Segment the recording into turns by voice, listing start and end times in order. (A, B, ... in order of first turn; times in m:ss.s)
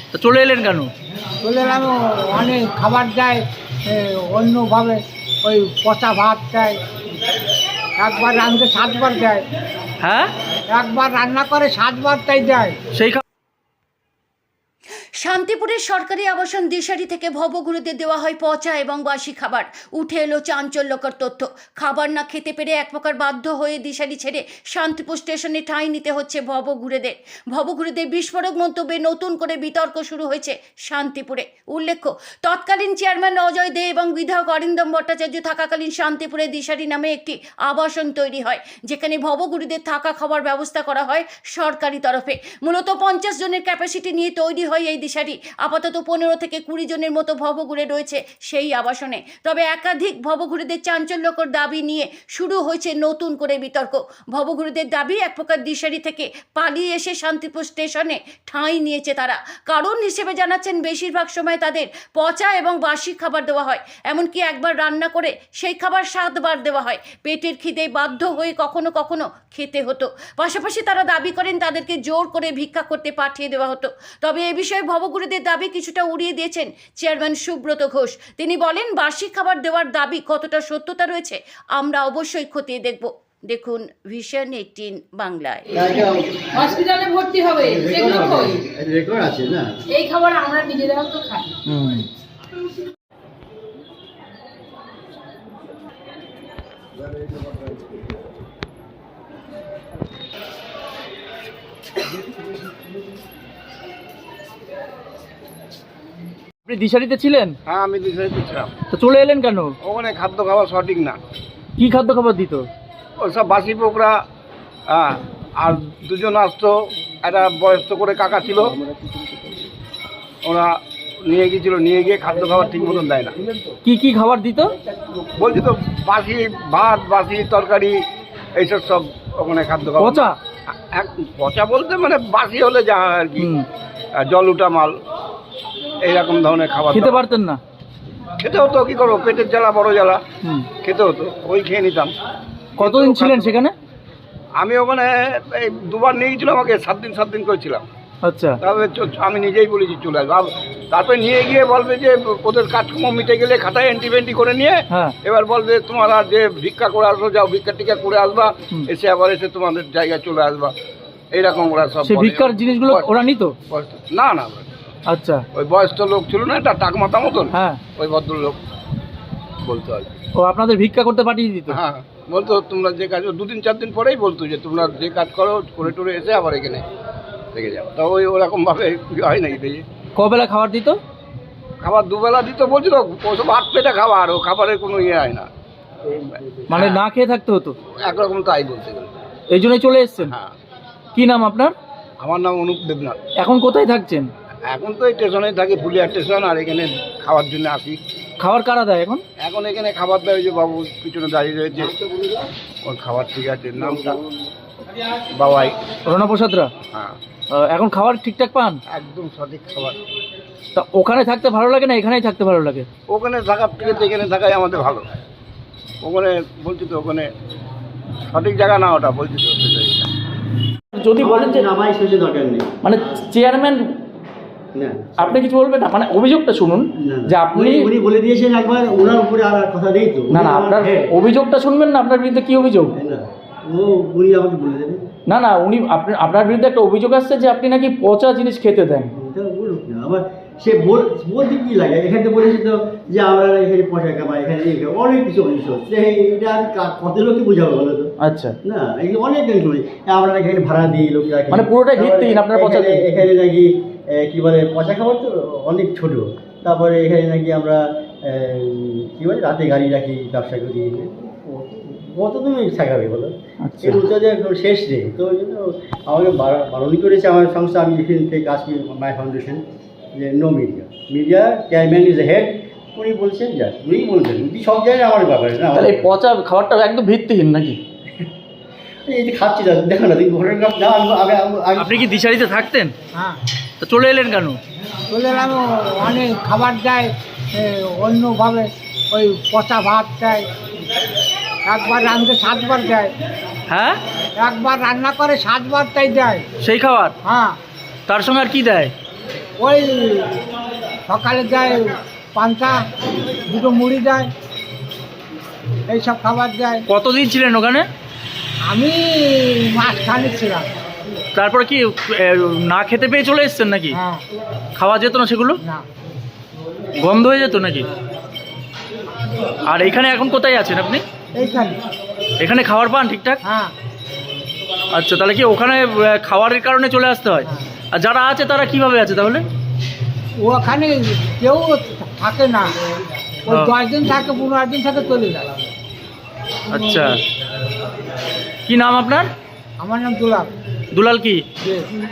0:00.1-0:00.9 A
0:01.4-0:06.8 B
0:08.0-0:09.4 B
0:10.0-0:10.3 A
0:10.7-0:12.8 B
0:12.9-0:13.2 A
0:15.2-1:25.8 C
1:25.7-1:26.9 D
1:26.7-1:28.5 E
1:27.5-1:29.7 D
1:29.9-1:31.6 E
1:31.6-1:32.0 A
1:46.6-1:47.6 A
1:47.6-1:48.7 F
1:48.9-1:49.7 A
1:49.8-1:51.2 F
1:51.8-1:52.7 A
1:53.2-1:54.2 F
1:54.9-1:58.8 F
2:00.4-2:03.4 F
2:03.8-2:04.7 A
2:05.4-2:08.0 F
2:08.5-2:10.3 F
2:10.0-2:10.4 A
2:10.9-2:13.5 F
2:13.4-2:13.6 A
2:14.1-2:15.0 F
2:16.0-2:17.2 F
2:16.9-2:17.6 A
2:18.4-2:20.2 F
2:20.4-2:20.7 A
2:20.8-2:22.1 F
2:22.8-2:23.7 A
2:22.8-2:23.5 F
2:24.6-2:27.9 F
2:28.2-2:28.6 A
2:28.6-2:40.7 F
2:34.9-2:35.2 A
2:41.3-2:43.1 F
2:42.0-2:43.5 A
2:43.7-2:44.7 F
2:45.1-2:45.4 A
2:45.5-2:48.6 F
2:47.5-2:47.8 A
2:49.6-2:50.1 F
2:50.4-2:51.8 A
2:51.7-2:56.9 F
2:57.5-2:59.8 F
3:00.2-3:01.0 A
3:01.8-3:05.5 F
3:06.7-3:07.7 A
3:06.7-3:07.0 F
3:07.9-3:09.1 F
3:09.5-3:10.3 A
3:10.3-3:10.5 F
3:11.1-3:11.7 A
3:12.2-3:13.2 F
3:13.4-3:14.3 A
3:14.6-3:18.0 F
3:18.4-3:19.2 A
3:19.4-3:22.0 F
3:22.8-3:24.2 F
3:25.3-3:25.8 F
3:26.0-3:26.7 A
3:26.9-3:27.2 F
3:27.5-3:28.8 A
3:28.9-3:30.0 F
3:30.7-3:32.9 A
3:33.1-3:35.1 F
3:36.0-3:37.3 F
3:38.2-3:40.1 F
3:40.9-3:41.6 A
3:41.2-3:43.2 D
3:42.8-3:43.9 A
3:44.7-3:45.4 D
3:45.2-3:47.9 A
3:47.0-3:51.1 D
3:50.3-3:52.9 A
3:52.9-3:55.1 D
3:55.3-3:59.1 A
3:59.1-4:08.1 D
4:08.2-4:08.6 A
4:08.6-4:29.6 D
4:11.5-4:13.2 A
4:23.6-4:24.0 A
4:30.1-4:36.0 D
4:35.7-4:37.8 A
4:39.0-4:41.9 D
4:41.8-4:42.9 A
4:43.1-4:43.4 B
4:43.8-4:44.6 A
4:45.1-4:50.4 B
4:51.6-4:53.1 B
4:53.7-4:54.0 A
4:54.4-4:56.4 B
4:56.6-4:57.2 A
4:57.2-4:57.6 B
4:58.1-4:58.9 A
4:59.6-5:00.4 B
5:01.1-5:02.8 B
5:03.3-5:04.3 B
5:05.9-5:06.8 B
5:06.9-5:07.9 A
5:08.6-5:10.7 B
5:11.3-5:14.0 A
5:13.9-5:14.2 B
5:14.7-5:15.6 A
5:17.0-5:17.9 A
5:19.6-5:21.0 A
5:21.3-5:21.8 B
5:22.4-5:23.4 A
5:23.4-5:23.7 B
5:24.9-5:29.4 A
5:30.4-5:32.8 B
5:33.5-5:35.5 B
5:33.5-5:33.7 A
5:36.7-5:37.2 A
5:38.6-5:39.3 A
5:39.8-5:40.5 B
5:40.9-5:41.4 A
5:41.6-5:41.9 B